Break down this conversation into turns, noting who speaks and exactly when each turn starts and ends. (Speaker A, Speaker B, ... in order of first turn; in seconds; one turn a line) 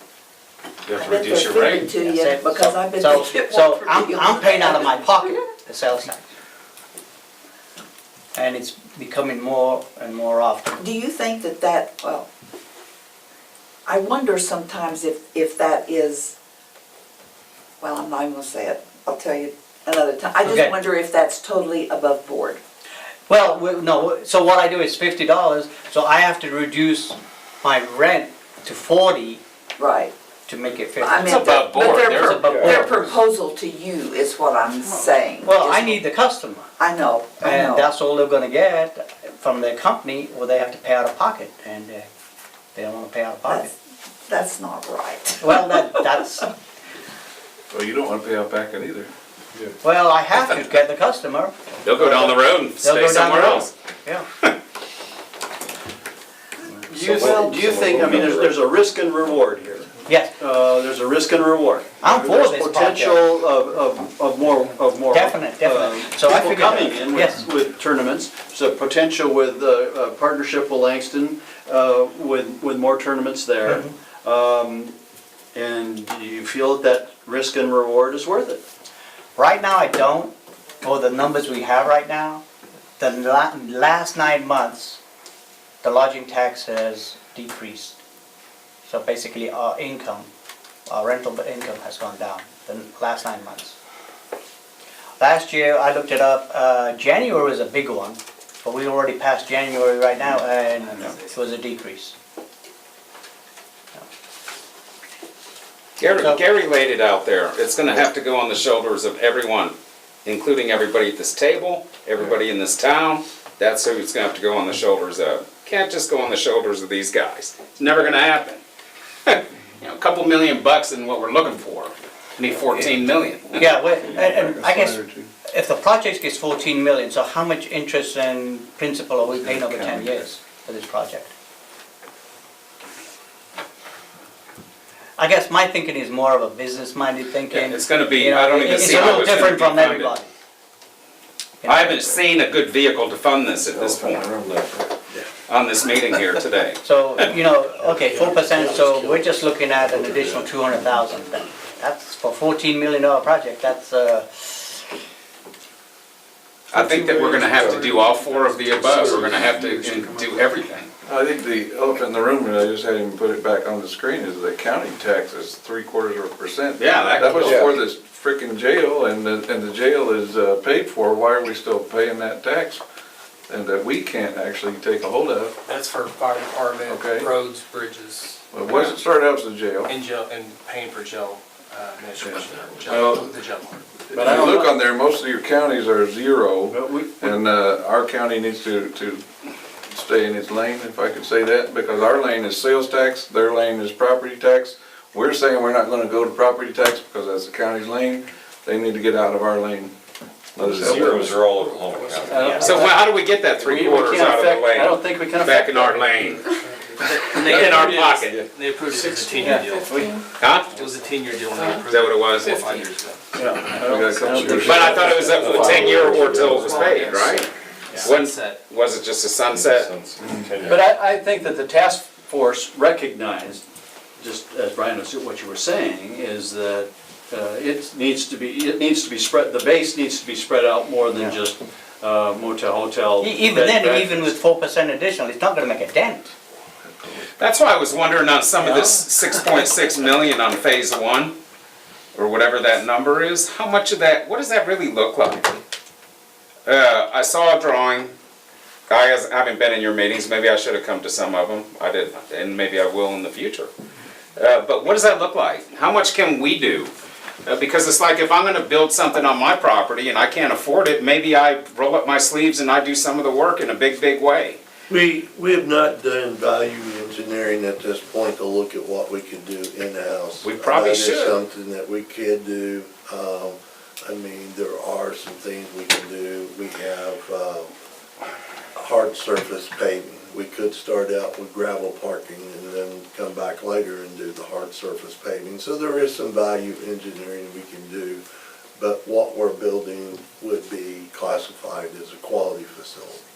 Speaker A: 0.8-1.9
Speaker B: 0.9-5.3
Speaker C: 2.0-6.3
Speaker C: 8.3-10.8
Speaker B: 10.8-12.3
Speaker B: 13.8-16.3
Speaker B: 17.8-22.6
Speaker C: 20.4-20.7
Speaker C: 23.3-29.4
Speaker B: 29.8-30.1
Speaker C: 30.5-33.1
Speaker B: 31.0-36.0
Speaker A: 31.2-32.8
Speaker C: 34.9-36.7
Speaker B: 36.8-37.9
Speaker C: 37.4-42.1
Speaker C: 42.7-43.7
Speaker B: 43.5-43.7
Speaker B: 44.2-45.8
Speaker C: 45.4-46.5
Speaker D: 47.7-49.1
Speaker C: 49.8-54.2
Speaker A: 51.8-53.7
Speaker E: 56.8-74.9
Speaker F: 57.0-58.5
Speaker C: 60.0-60.4
Speaker C: 62.0-63.3
Speaker C: 65.1-67.4
Speaker C: 73.7-73.9
Speaker E: 75.5-78.6
Speaker C: 79.3-82.4
Speaker C: 83.0-85.0
Speaker C: 85.8-87.9
Speaker C: 88.8-90.3
Speaker C: 90.9-93.8
Speaker C: 95.2-102.1
Speaker A: 106.0-109.7
Speaker C: 106.1-106.4
Speaker A: 110.2-118.6
Speaker A: 119.2-123.7
Speaker C: 123.6-131.3
Speaker D: 124.0-125.3
Speaker D: 129.2-130.2
Speaker C: 135.2-140.3
Speaker A: 137.5-140.2
Speaker C: 141.6-142.1
Speaker A: 141.6-144.3
Speaker D: 144.2-144.8
Speaker A: 145.5-146.8
Speaker C: 146.8-154.8
Speaker A: 156.7-160.9
Speaker F: 157.3-157.9
Speaker F: 158.8-159.9
Speaker D: 161.1-172.8
Speaker A: 166.8-167.7
Speaker F: 167.4-167.7
Speaker D: 173.5-175.6
Speaker G: 175.7-179.0
Speaker D: 176.8-177.3
Speaker D: 178.5-179.9
Speaker G: 179.8-183.8
Speaker D: 182.2-183.3
Speaker D: 184.1-189.2
Speaker E: 184.1-184.7
Speaker E: 186.7-187.3
Speaker D: 189.9-199.9
Speaker D: 200.6-201.6
Speaker F: 200.6-202.9
Speaker E: 202.1-203.0
Speaker A: 202.6-206.5
Speaker E: 203.6-206.0
Speaker G: 207.0-214.3
Speaker A: 207.5-208.4
Speaker E: 209.3-210.1
Speaker A: 210.4-210.7
Speaker A: 211.8-212.8
Speaker E: 213.3-214.9
Speaker D: 213.8-216.0
Speaker A: 214.6-220.0
Speaker F: 214.6-216.9
Speaker G: 214.9-218.6
Speaker F: 219.5-221.0
Speaker E: 220.6-223.6
Speaker E: 224.2-234.3
Speaker C: 233.2-236.3
Speaker A: 237.4-241.3
Speaker A: 242.1-245.6
Speaker A: 246.7-248.1
Speaker A: 248.9-253.7
Speaker A: 254.3-256.9
Speaker A: 257.4-264.6
Speaker H: 264.9-277.7
Speaker A: 270.4-271.4
Speaker H: 278.8-288.2
Speaker H: 288.8-293.2